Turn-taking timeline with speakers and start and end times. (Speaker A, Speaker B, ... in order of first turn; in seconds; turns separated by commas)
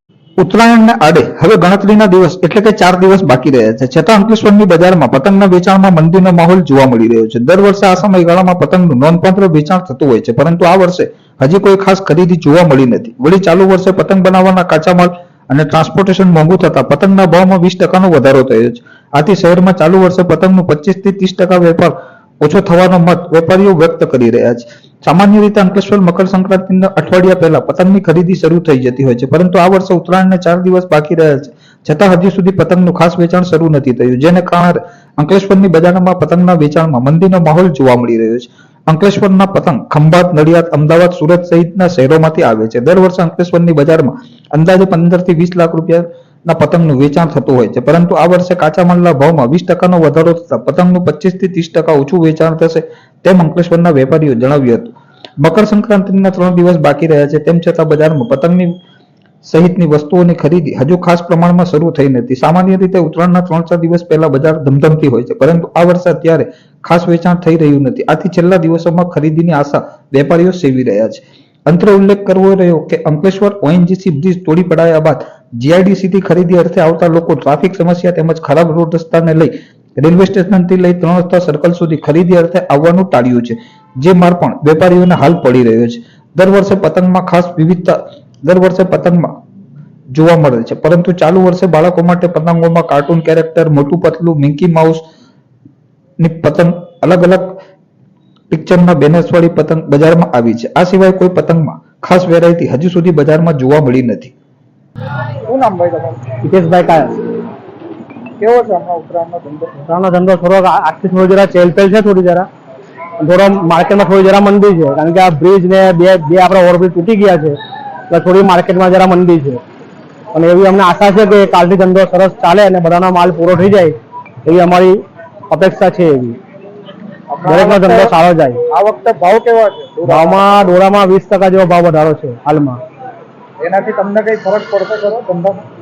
Speaker A: 0.4-58.8, Speaker A: 59.4-89.3, Speaker A: 90.1-95.0, Speaker A: 96.2-97.6, Speaker A: 98.5-104.3, Speaker B: 105.5-106.2, Speaker C: 106.4-107.2, Speaker B: 108.4-109.7, Speaker C: 109.8-112.5, Speaker C: 113.2-117.6, Speaker C: 118.1-119.6, Speaker C: 120.3-125.0, Speaker C: 125.5-126.4, Speaker B: 127.3-128.1, Speaker C: 127.4-128.6, Speaker B: 128.8-130.4, Speaker C: 130.0-132.8, Speaker B: 133.6-135.6